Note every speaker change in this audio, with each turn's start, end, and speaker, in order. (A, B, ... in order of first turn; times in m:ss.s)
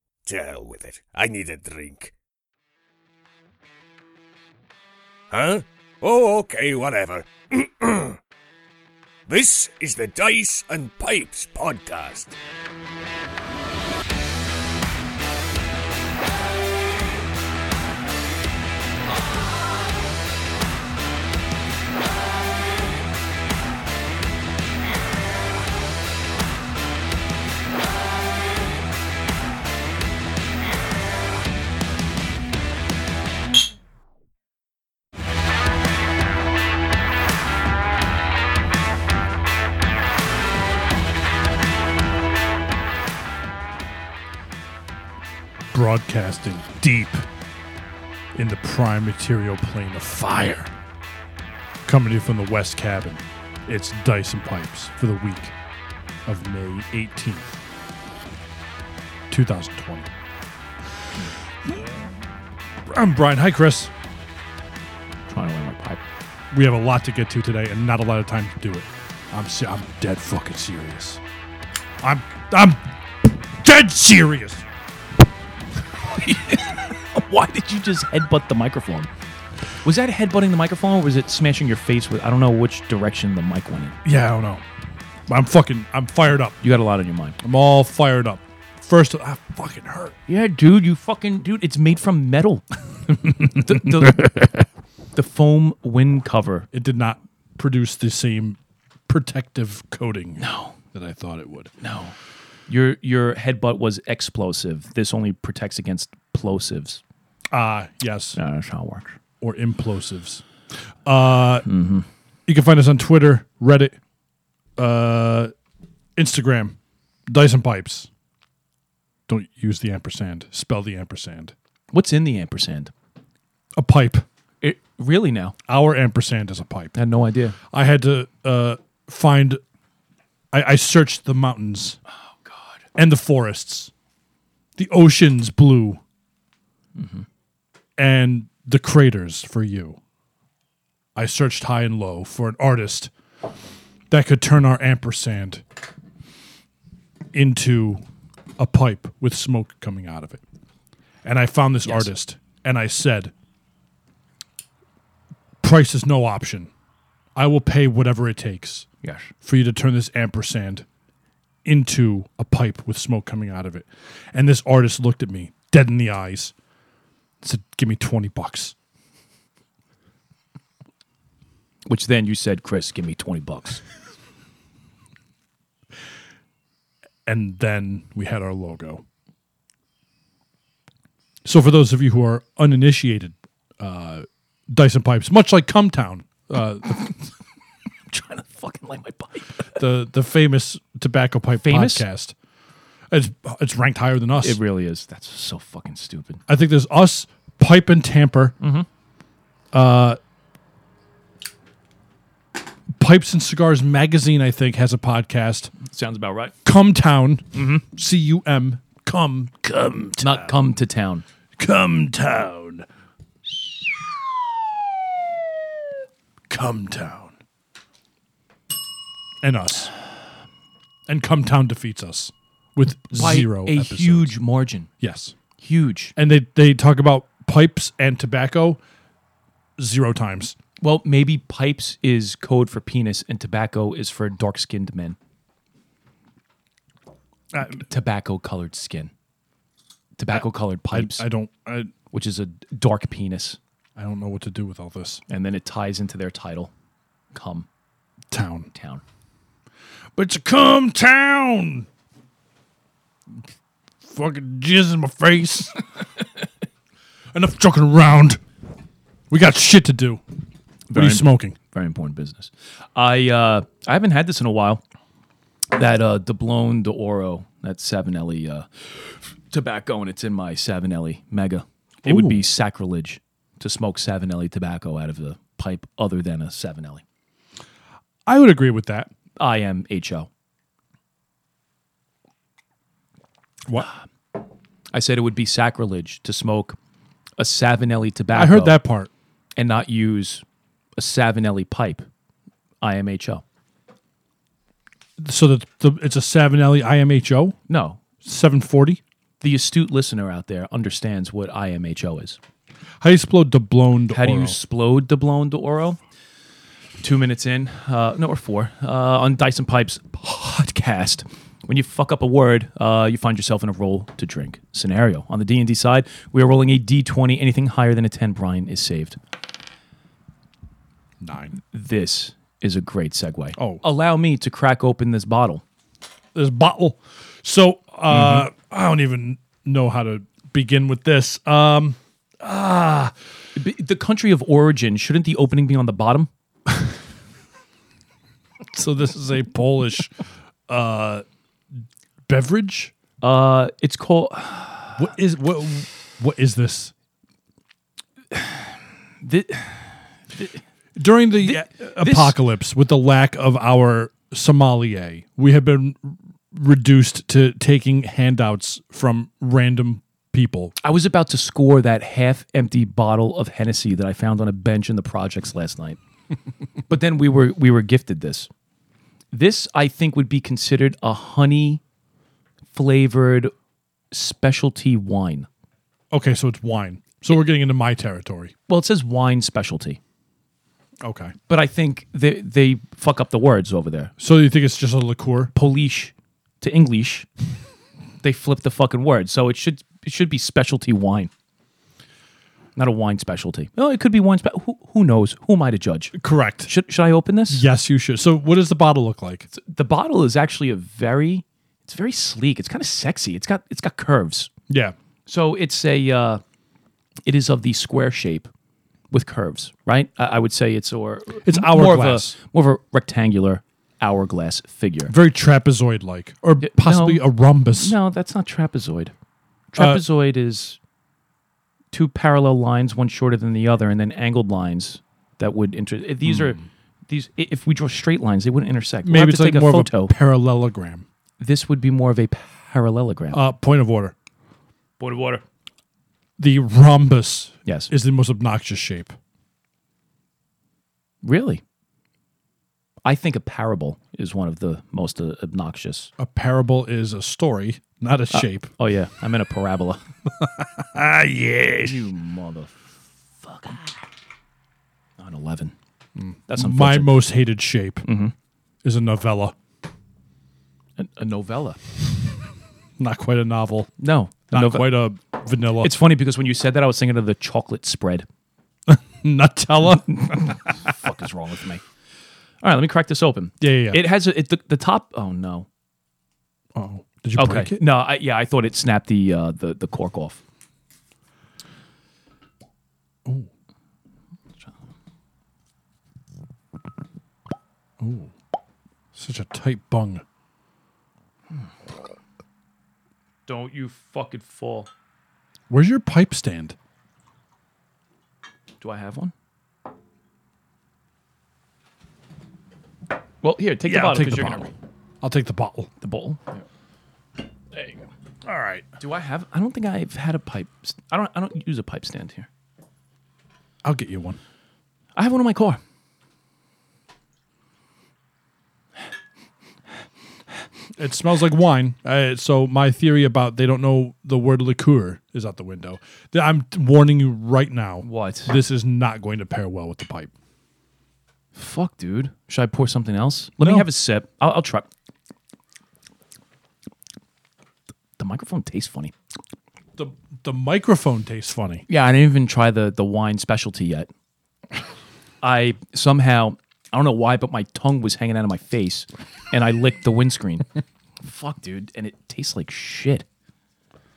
0:00.2-0:02.1 A
0:05.3-0:08.2 A
0:09.3-0:12.3 A
0:45.7-0:47.2 B
0:48.3-0:50.7 B
0:51.8-0:55.5 B
0:56.3-0:57.6 B
0:59.3-1:00.1 B
1:02.9-1:03.9 B
1:05.3-1:06.0 C
1:06.5-1:11.2 B
1:12.0-1:14.6 B
1:16.0-1:19.1 C
1:19.8-1:24.0 C
1:24.0-1:24.6 B
1:25.3-1:26.6 B
1:26.6-1:27.4 C
1:27.4-1:30.2 B
1:30.3-1:34.3 C
1:35.1-1:36.7 C
1:36.7-1:41.7 B
1:40.4-1:40.7 C
1:41.8-1:42.1 C
1:42.7-1:47.0 C
1:47.5-1:48.4 B
1:48.4-1:49.2 C
1:49.4-1:50.4 B
1:51.0-1:51.7 B
1:51.6-1:52.0 C
1:52.5-1:54.0 B
1:54.8-1:55.5 B
1:56.2-1:56.8 B
1:57.3-1:58.1 B
1:59.3-2:01.5 B
2:01.9-2:02.9 C
2:03.8-2:04.2 B
2:04.6-2:05.6 C
2:05.7-2:07.0 B
2:07.0-2:07.6 C
2:07.7-2:09.6 B
2:10.5-2:12.0 B
2:12.4-2:12.8 C
2:13.0-2:13.9 B
2:14.8-2:16.0 B
2:17.0-2:17.2 C
2:18.0-2:20.0 B
2:21.1-2:23.1 B
2:24.1-2:25.6 B
2:27.3-2:28.0 B
2:28.6-2:30.4 B
2:31.2-2:33.3 B
2:31.8-2:32.1 C
2:35.6-2:36.7 B
2:37.3-2:38.9 B
2:39.0-2:39.3 C
2:39.4-2:40.8 B
2:41.6-2:46.5 B
2:47.4-2:48.7 B
2:51.8-2:53.8 C
2:57.2-2:59.0 B
3:01.4-3:07.1 B
3:08.1-3:09.8 C
3:09.8-3:12.3 B
3:11.6-3:12.0 C
3:13.1-3:14.6 B
3:14.4-3:16.4 C
3:16.5-3:18.6 B
3:18.6-3:18.9 C
3:19.7-3:20.2 B
3:22.9-3:25.7 B
3:25.8-3:26.5 C
3:26.6-3:30.5 B
3:27.5-3:27.8 C
3:30.2-3:31.2 C
3:31.6-3:32.8 B
3:36.5-3:37.4 B
3:39.4-3:39.9 B
3:41.1-3:44.3 B
3:43.1-3:44.9 C
3:45.0-3:45.3 B
3:45.6-3:46.1 C
3:46.2-3:48.8 B
3:49.8-3:50.6 B
3:50.8-3:55.2 C
3:57.6-3:59.1 C
4:00.2-4:01.2 C
4:00.3-4:01.9 B
4:02.1-4:03.6 C
4:04.0-4:05.2 B
4:05.3-4:06.7 C
4:07.3-4:07.7 C
4:08.3-4:08.7 B
4:08.7-4:09.0 C
4:10.2-4:11.9 B
4:14.0-4:15.8 B
4:17.3-4:18.4 B
4:19.3-4:20.2 B
4:20.9-4:24.8 C
4:20.9-4:21.5 B
4:25.7-4:28.7 C
4:29.5-4:37.0 C
4:32.0-4:32.4 B
4:38.2-4:39.1 B
4:39.4-4:40.3 C
4:44.9-4:46.8 C
4:47.4-4:48.8 C
4:48.3-4:49.1 B
4:49.6-4:50.4 C
4:51.0-4:52.0 C
4:52.8-4:53.4 C
4:55.2-4:57.6 B
4:57.7-4:58.0 C
4:58.2-4:59.0 B
4:59.4-5:02.4 C
5:03.0-5:04.6 B
5:04.1-5:06.0 C
5:07.0-5:19.2 C
5:21.2-5:21.5 B
5:21.7-5:25.6 C
5:23.6-5:23.8 B
5:26.3-5:33.1 B
5:28.1-5:28.4 C
5:33.6-5:36.3 C
5:38.7-5:40.1 B
5:40.7-5:41.2 B
5:42.2-5:42.9 B
5:43.2-5:45.0 C
5:45.0-5:46.9 B
5:48.3-5:48.6 C
5:49.2-5:50.5 C
5:51.0-6:00.7 B
5:51.4-5:52.4 C
6:00.8-6:06.0 C
6:06.9-6:08.5 C
6:09.3-6:11.8 C
6:12.7-6:13.5 C
6:14.1-6:15.5 C
6:16.1-6:18.5 B
6:18.7-6:20.0 C
6:21.0-6:21.3 B
6:21.5-6:24.1 C
6:24.2-6:25.5 B
6:25.5-6:27.3 C
6:28.2-6:31.3 C
6:32.8-6:37.6 C
6:36.1-6:36.7 B
6:37.5-6:39.5 B
6:39.5-6:44.5 C
6:44.7-6:44.9 B
6:45.3-6:46.4 C
6:47.2-6:48.5 C
6:49.1-6:55.1 C
6:51.4-6:52.3 B
6:55.1-6:58.0 B
6:56.6-6:59.1 C
6:59.7-7:00.8 C
6:59.8-7:00.0 B
7:01.9-7:10.1 C
7:06.3-7:06.6 B
7:09.0-7:11.0 B
7:11.4-7:13.4 C
7:13.3-7:14.1 B
7:15.0-7:15.4 C
7:16.4-7:19.2 B
7:21.2-7:21.6 C
7:23.0-7:26.1 C
7:26.2-7:28.7 B
7:28.3-7:30.0 C
7:30.4-7:32.1 B
7:31.8-7:32.7 C
7:33.4-7:33.9 C
7:35.2-7:35.7 C
7:36.2-7:38.0 B
7:36.5-7:37.3 C
7:38.0-7:38.3 C
7:38.8-7:39.5 B
7:41.0-7:41.8 C
7:43.0-7:43.9 B
7:44.0-7:44.9 C
7:44.5-7:46.0 B
7:45.8-7:48.2 C
7:48.9-7:50.7 B
7:50.0-7:51.8 C
7:52.6-7:55.7 C
7:53.6-7:54.0 B
7:56.7-7:57.8 B
7:57.4-8:00.4 C
8:08.0-8:08.3 B
8:09.1-8:10.2 B
8:13.5-8:14.9 C
8:15.7-8:16.8 B
8:18.8-8:19.3 C
8:23.4-8:24.7 C
8:23.8-8:25.9 B
8:26.0-8:26.6 C
8:27.7-8:28.0 C
8:28.4-8:28.9 B
8:29.0-8:32.5 C
8:33.8-8:34.4 B
8:35.1-8:35.8 C
8:41.0-8:50.3 B
8:48.0-8:48.5 C
8:51.5-8:54.9 C
8:53.6-8:53.9 B
8:58.2-8:59.1 C
9:00.0-9:01.8 B
9:01.9-9:04.1 C
9:05.4-9:10.7 C
9:11.2-9:13.2 C